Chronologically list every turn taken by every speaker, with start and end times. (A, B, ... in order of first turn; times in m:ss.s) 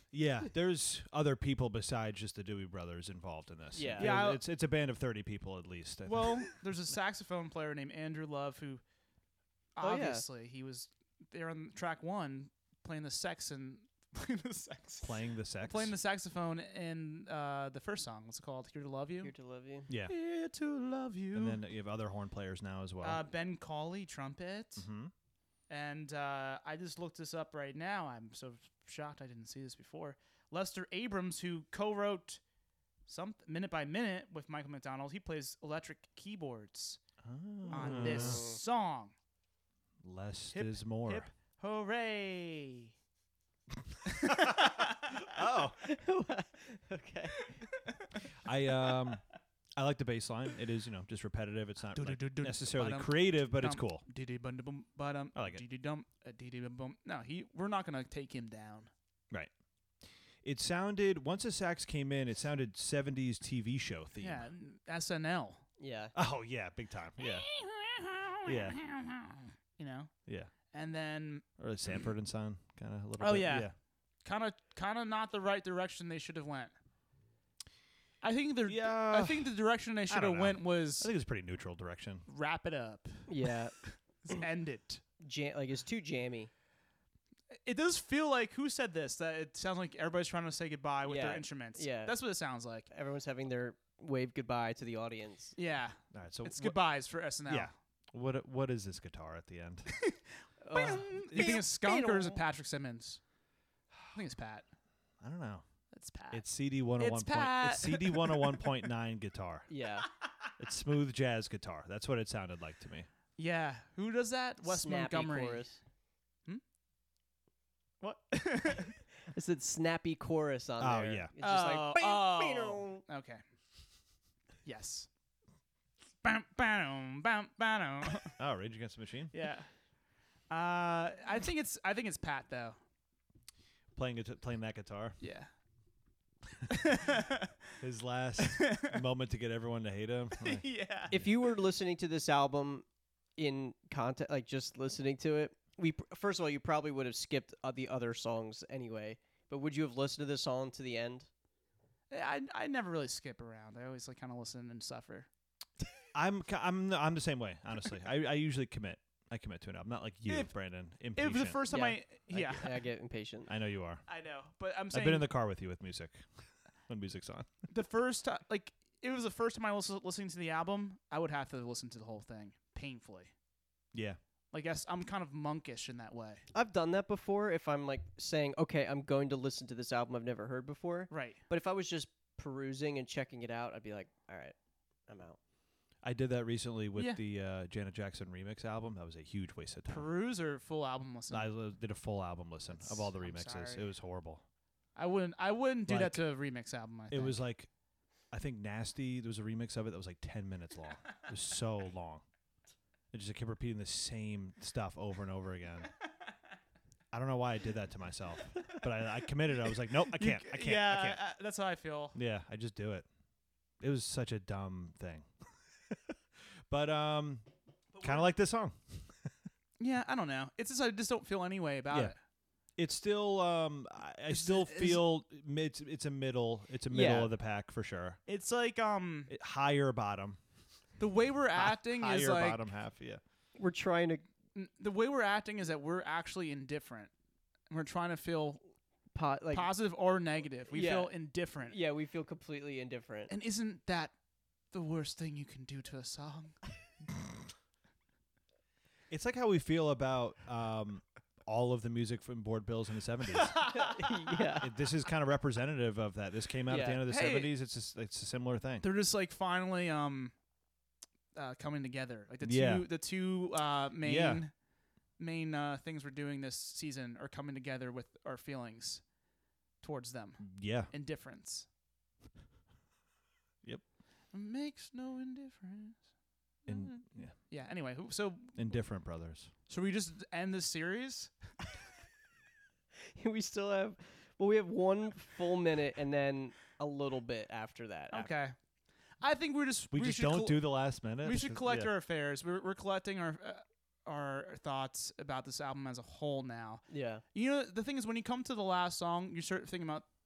0:00.1-0:06.5 A
0:03.7-0:04.2 B
0:04.0-0:04.4 C
0:06.0-0:08.8 C
0:09.8-0:19.3 C
0:09.8-0:10.3 B
0:15.0-0:15.9 A
0:19.2-0:19.9 B
0:19.9-0:20.1 A
0:20.0-0:21.6 C
0:21.3-0:23.2 A
0:23.0-0:24.9 C
0:24.8-0:25.1 A
0:25.7-0:32.4 C
0:33.1-0:37.0 C
0:37.2-0:38.5 A
0:37.7-0:38.6 B
0:37.7-0:39.1 C
0:40.0-0:41.3 A
0:40.5-0:42.9 C
0:44.1-0:45.2 C
0:45.2-0:45.8 A
0:45.8-0:47.6 B
0:48.4-0:49.2 A
0:49.8-0:54.0 A
0:51.9-0:58.9 C
0:55.4-0:55.6 A
1:00.4-1:04.5 A
1:04.2-1:05.6 C
1:05.8-1:06.1 B
1:06.2-1:07.5 A
1:07.2-1:10.1 C
1:08.4-1:08.8 A
1:10.3-1:10.5 A
1:10.7-1:12.1 C
1:11.6-1:13.7 A
1:13.2-1:13.7 C
1:14.2-1:16.7 C
1:18.2-1:21.1 C
1:18.6-1:19.6 A
1:20.1-1:22.3 A
1:22.3-1:23.3 C
1:23.3-1:23.8 B
1:23.8-1:25.0 C
1:25.2-1:26.5 B
1:27.6-1:32.9 C
1:31.0-1:32.2 B
1:32.9-1:35.6 B
1:35.6-1:37.7 C
1:36.1-1:39.9 A
1:39.9-1:43.2 C
1:40.6-1:42.4 B
1:44.1-1:44.7 C
1:45.2-1:45.7 A
1:45.9-1:48.9 C
1:46.3-1:49.7 A
1:49.7-1:50.1 B
1:50.6-1:53.1 A
1:53.4-1:55.8 C
1:54.6-1:55.8 B
1:58.0-1:59.0 C
1:59.3-2:03.0 B
2:00.8-2:01.3 A
2:01.4-2:03.4 C
2:04.6-2:05.1 C
2:06.2-2:08.4 C
2:08.4-2:09.3 A
2:09.3-2:09.7 C
2:10.5-2:12.8 C
2:14.0-2:15.2 A
2:15.2-2:15.5 C
2:16.7-2:17.5 C
2:17.8-2:21.3 A
2:18.4-2:18.9 C
2:20.4-2:21.1 C
2:21.1-2:22.9 B
2:23.4-2:31.3 B
2:32.1-2:35.3 C
2:36.2-2:41.6 A
2:40.3-2:42.9 C
2:41.7-2:43.5 B
2:43.5-2:44.0 A
2:44.1-2:45.3 C
2:44.9-2:47.6 A
2:47.7-2:53.3 C
2:54.5-2:56.4 C
2:56.5-3:04.6 B
3:01.1-3:01.4 C
3:05.1-3:05.4 B
3:06.0-3:10.1 A
3:07.0-3:07.2 C
3:09.9-3:11.6 C
3:11.3-3:14.4 A
3:12.7-3:14.0 C
3:15.0-3:17.4 C
3:15.9-3:16.5 A
3:17.1-3:17.7 A
3:18.3-3:22.2 A
3:23.1-3:25.9 A
3:27.1-3:31.2 A
3:30.1-3:32.2 C
3:32.1-3:33.1 A
3:33.8-3:35.3 A
3:36.7-3:39.3 A
3:38.0-3:38.3 C
3:39.8-3:42.2 C
3:42.8-3:48.2 A
3:44.3-3:45.0 C
3:46.9-3:47.3 B
3:48.3-3:49.3 C
3:49.3-3:50.4 A
3:51.0-3:52.6 C
3:51.6-3:53.2 A
3:53.6-3:54.3 B
3:54.6-3:57.1 C
3:57.7-3:58.6 C
3:59.1-3:59.7 B
3:59.5-4:01.8 C
4:00.7-4:03.3 B
4:03.3-4:04.2 C
4:04.7-4:06.6 C
4:09.1-4:13.6 A
4:13.3-4:14.0 C
4:13.8-4:14.7 B
4:14.6-4:18.9 A
4:16.7-4:17.0 B
4:17.0-4:17.6 C
4:18.8-4:20.4 C
4:21.4-4:24.5 C
4:22.4-4:22.9 A
4:24.0-4:24.4 A
4:25.2-4:29.1 C
4:29.8-4:31.7 C
4:30.4-4:30.9 A
4:34.3-4:36.1 C
4:36.6-4:38.9 C
4:36.7-4:37.4 A
4:38.6-4:39.5 A
4:39.7-4:41.6 C
4:43.1-4:48.3 B
4:48.1-4:48.6 C
4:49.2-5:00.1 C
4:49.9-4:51.9 A
4:56.9-4:57.2 B